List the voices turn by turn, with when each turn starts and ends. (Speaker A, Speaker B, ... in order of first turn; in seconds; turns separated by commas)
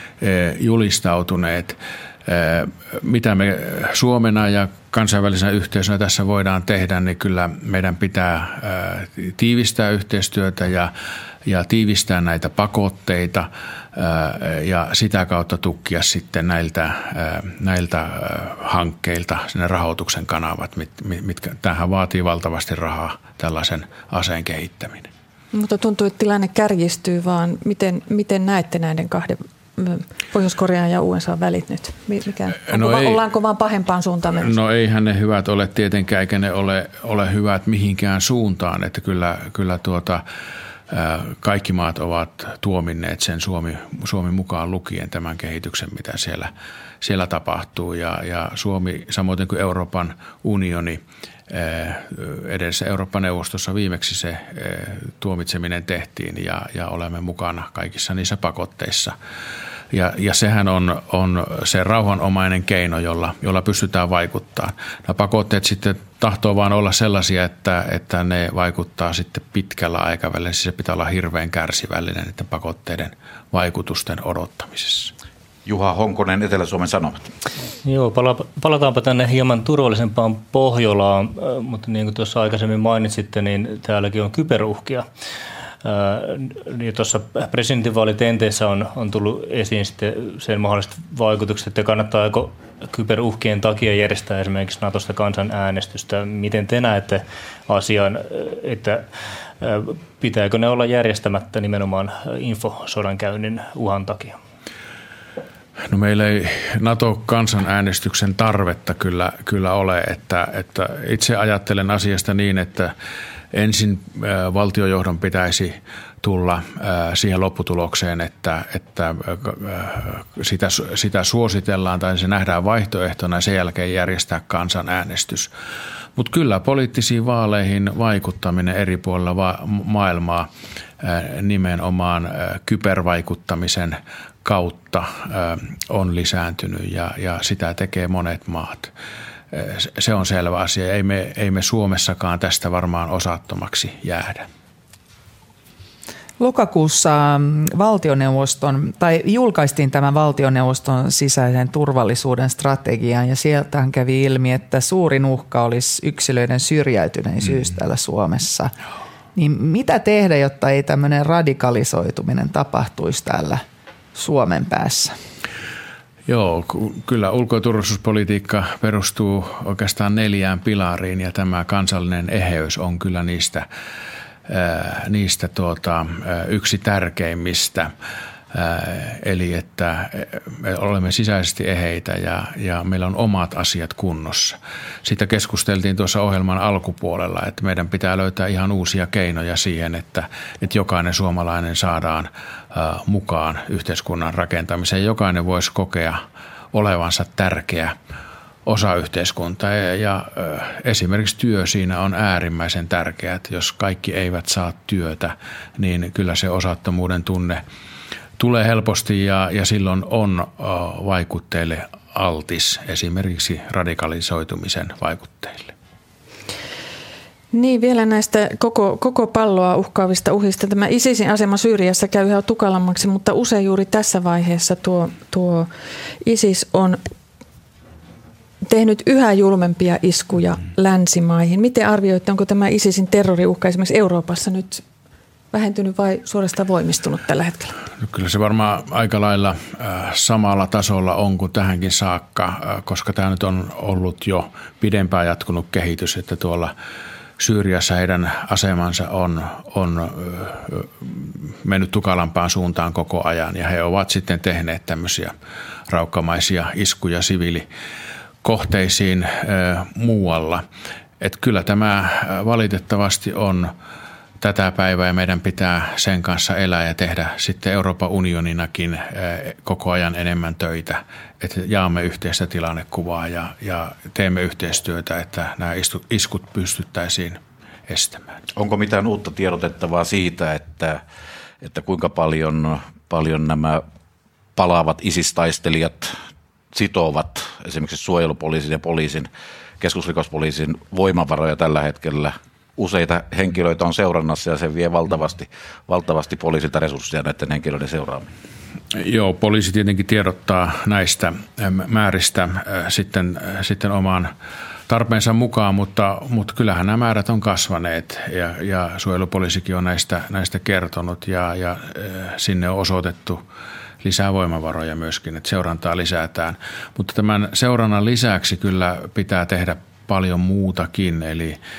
Speaker A: 0.2-10.9, Speaker A: 11.5-25.1, Speaker B: 25.5-34.5, Speaker A: 32.6-33.2, Speaker A: 34.4-40.2, Speaker A: 40.9-59.1, Speaker A: 59.9-75.1, Speaker C: 75.7-77.3, Speaker D: 77.8-85.1, Speaker D: 85.8-99.1, Speaker D: 99.6-104.4, Speaker A: 105.9-112.9, Speaker A: 113.5-125.5, Speaker A: 126.2-130.5, Speaker A: 131.0-138.9, Speaker A: 139.5-144.5, Speaker E: 146.4-158.7, Speaker E: 159.3-163.6, Speaker E: 164.2-165.1, Speaker A: 166.3-173.7, Speaker A: 174.5-177.9, Speaker A: 178.5-196.2, Speaker A: 196.7-197.9, Speaker A: 198.7-207.6, Speaker A: 208.4-215.7, Speaker B: 217.5-225.7, Speaker B: 226.2-227.0, Speaker B: 228.7-234.8, Speaker B: 235.5-237.8, Speaker A: 238.0-246.7, Speaker A: 247.4-255.3, Speaker A: 255.9-257.6, Speaker A: 258.4-260.6, Speaker A: 261.2-263.7, Speaker A: 264.4-278.2, Speaker C: 278.6-281.0, Speaker C: 281.6-283.8, Speaker C: 284.6-286.2, Speaker C: 286.7-289.3, Speaker C: 289.8-298.3, Speaker A: 298.9-304.3, Speaker A: 304.9-313.4, Speaker A: 314.0-321.6